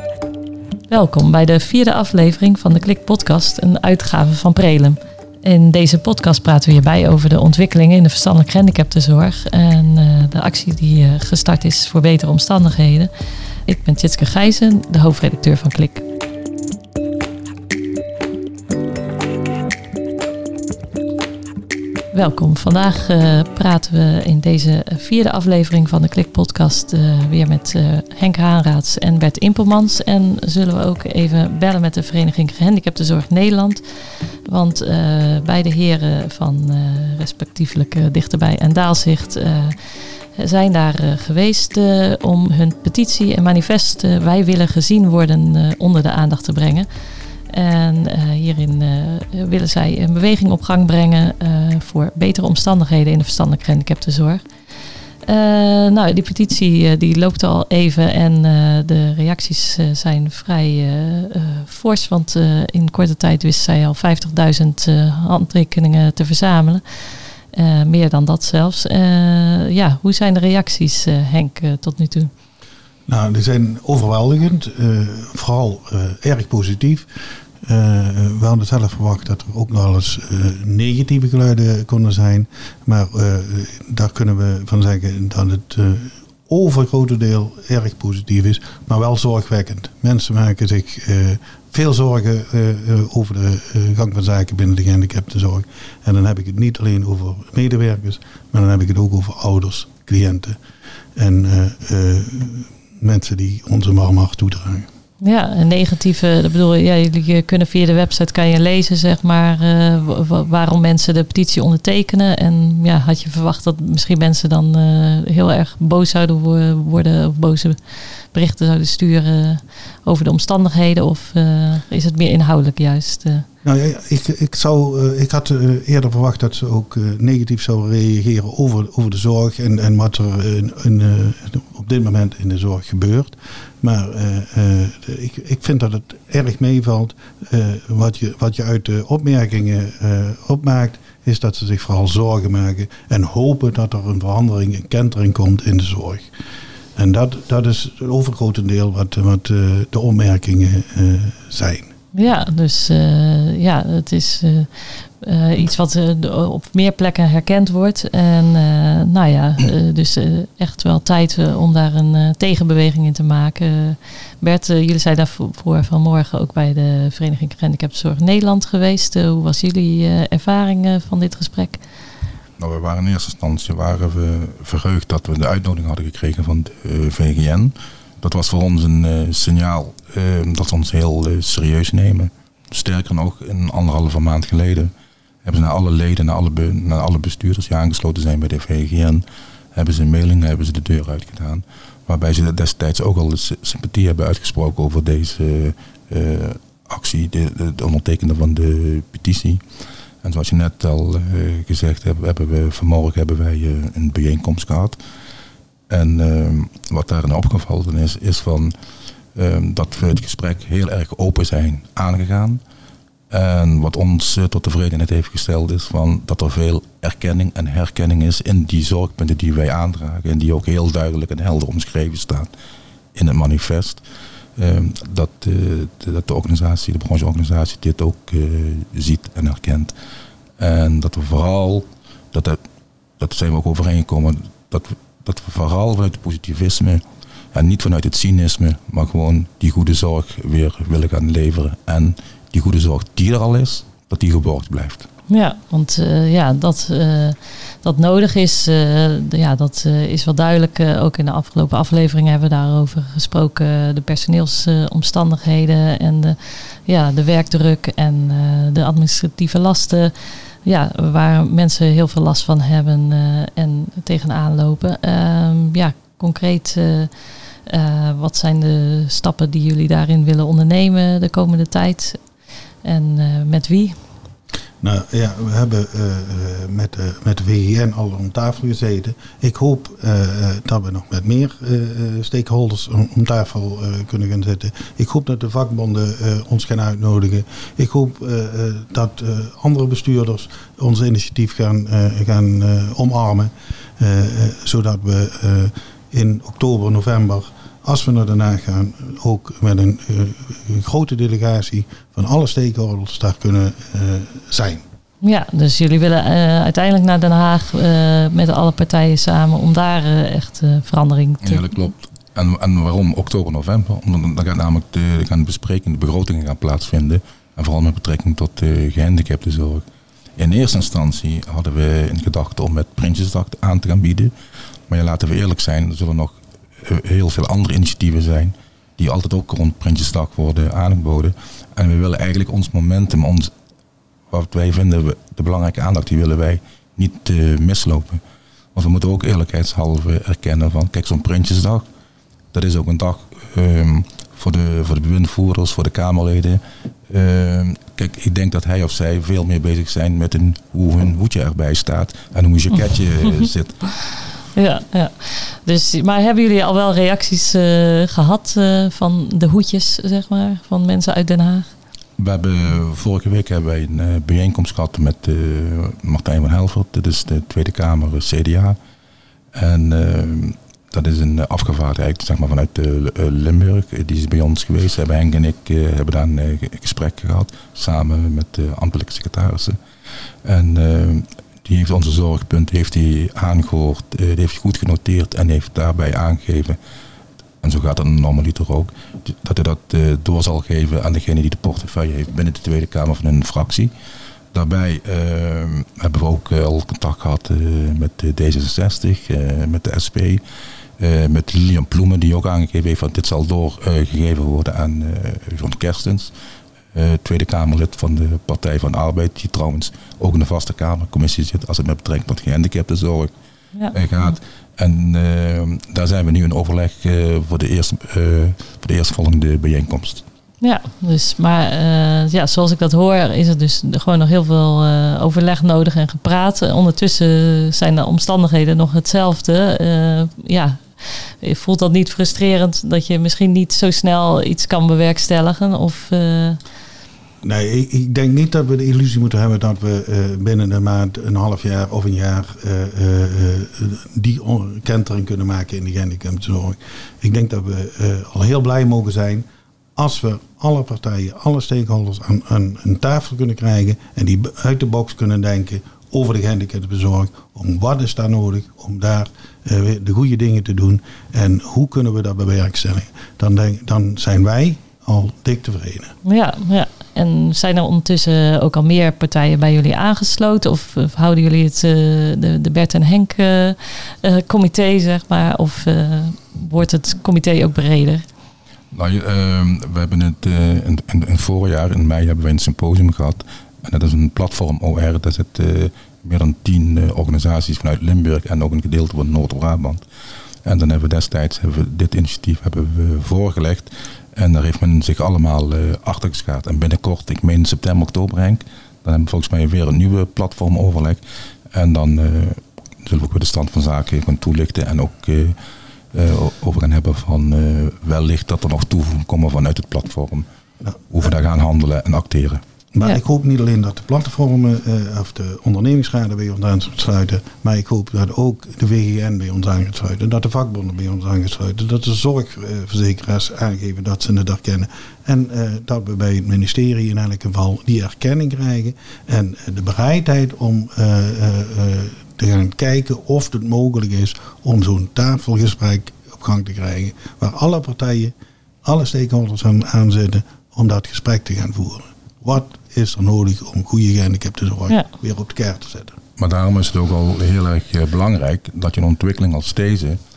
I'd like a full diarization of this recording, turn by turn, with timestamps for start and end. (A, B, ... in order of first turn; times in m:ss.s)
0:00.9-0:13.1 A
0:13.7-0:16.1 A
0:22.1-0:33.8 A
0:34.4-0:46.9 A
0:47.5-0:54.4 A
0:55.3-1:12.3 A
1:13.1-1:17.1 B
1:17.6-1:40.6 B
1:41.2-1:44.9 B
1:45.2-2:03.5 A
2:03.6-2:26.3 B
2:27.0-2:31.9 B
2:32.1-2:51.8 A
2:52.6-3:04.9 C
3:05.4-3:09.2 C
3:09.8-3:19.6 C
3:20.2-3:25.0 C
3:25.9-3:28.8 C
3:29.3-3:32.6 C
3:33.3-3:42.5 C
3:43.1-3:44.0 C
3:44.6-3:49.9 C
3:50.6-3:52.6 C
3:53.2-4:05.1 C
4:05.3-4:32.2 A
4:32.8-4:34.0 A
4:34.8-5:04.8 B
5:05.2-5:11.7 A
5:11.4-5:19.8 C
5:20.4-5:24.3 C
5:24.9-5:33.5 C
5:34.3-5:38.2 C
5:38.8-5:41.9 C
5:42.5-5:53.8 C
5:54.5-6:01.7 A
6:02.2-6:08.8 C
6:09.5-6:19.8 C
6:20.4-6:26.8 C
6:27.6-6:33.9 C
6:34.5-6:40.4 C
6:41.0-6:46.3 C
6:46.9-6:53.3 C
6:53.7-6:54.4 A
6:53.9-7:00.3 C
7:00.6-7:16.6 A
7:17.4-7:29.4 B
7:30.0-7:46.1 B
7:46.2-7:58.2 A
7:58.9-8:10.0 C
8:10.6-8:21.2 C
8:21.7-8:25.6 C
8:26.1-8:30.5 C
8:31.1-8:32.6 C
8:32.9-8:58.3 B
8:58.8-9:06.2 B
9:06.4-9:10.2 C